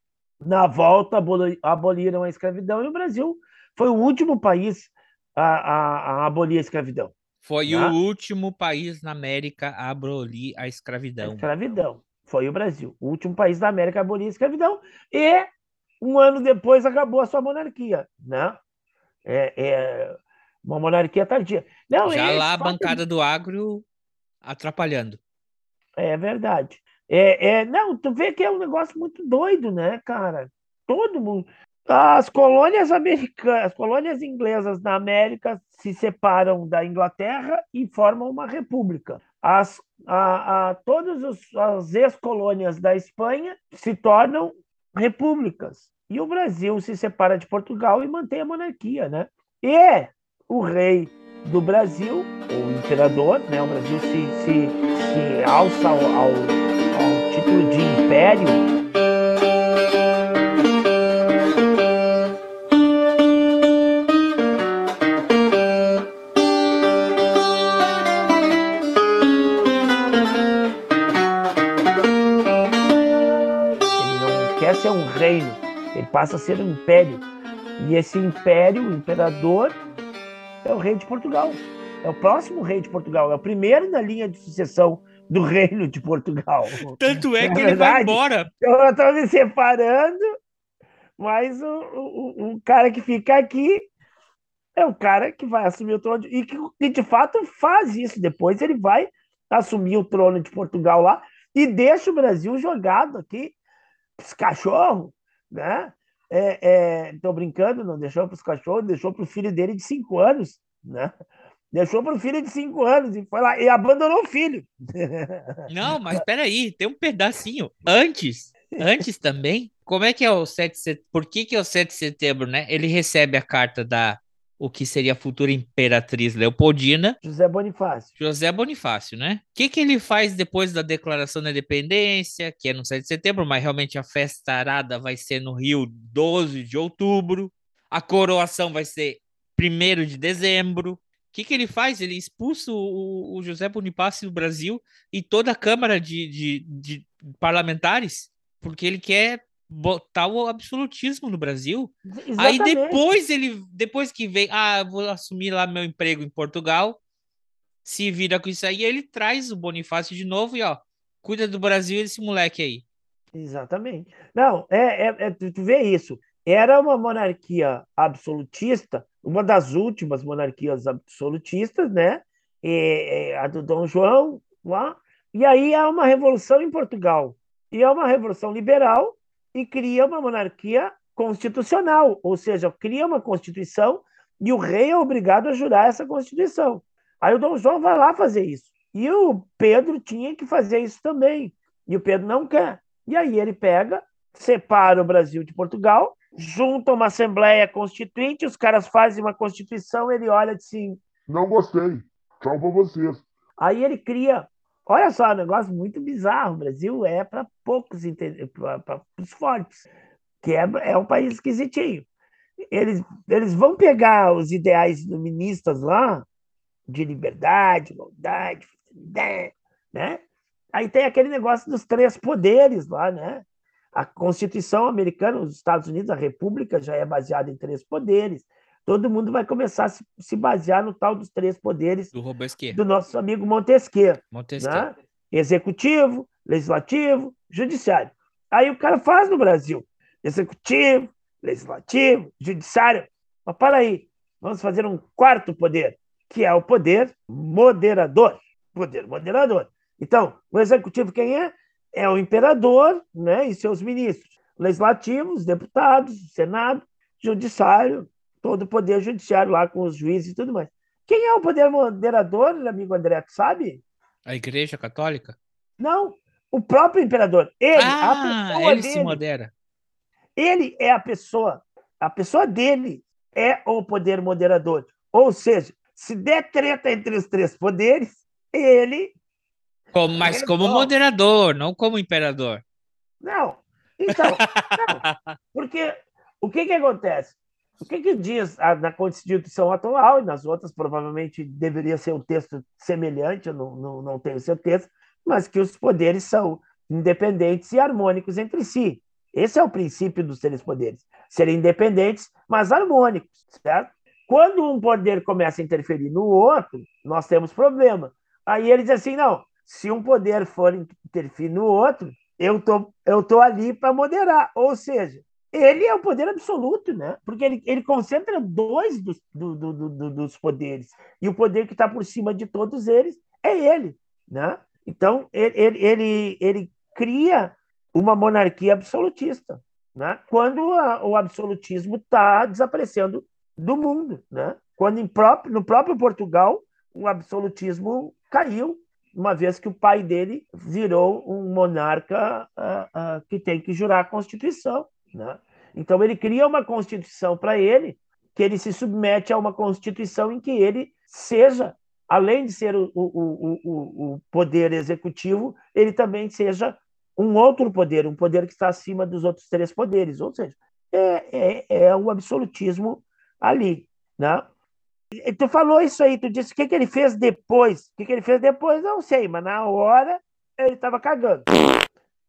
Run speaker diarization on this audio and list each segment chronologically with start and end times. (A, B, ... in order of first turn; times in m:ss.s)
0:00.4-0:07.1 A
0:07.4-0:11.5 B
0:07.7-0:08.0 A
0:11.2-0:15.5 A
0:16.0-0:18.6 A
0:19.2-0:23.0 A
0:22.0-0:23.8 B
0:24.4-0:25.2 B
0:26.0-0:58.6 A
1:14.0-1:17.2 A
1:17.8-1:19.8 A
1:20.6-1:30.2 A
1:27.0-1:28.5 B
1:31.2-1:33.9 A
1:34.8-1:43.6 A
1:44.2-1:51.1 A
1:51.7-1:56.2 A
1:55.7-2:07.2 B
1:58.8-1:59.0 A
2:07.2-2:08.1 A
2:08.2-2:37.0 B
2:32.1-2:33.0 A
2:37.8-2:42.8 B
2:43.3-3:21.0 A
3:21.3-3:23.2 C
3:23.6-3:29.8 A
3:30.4-3:32.1 A
3:32.7-3:36.3 A
3:36.9-3:40.2 A
3:40.7-3:52.1 A
3:52.1-3:52.8 B
3:52.7-4:23.8 A
3:54.3-3:54.9 B
4:24.3-4:25.4 B
4:25.8-4:29.2 A
4:27.8-4:29.5 B
4:30.4-4:39.2 A
4:39.9-4:42.6 B
4:40.2-4:40.9 A
4:43.2-6:04.5 A
4:44.1-4:45.4 B
6:05.1-6:11.5 A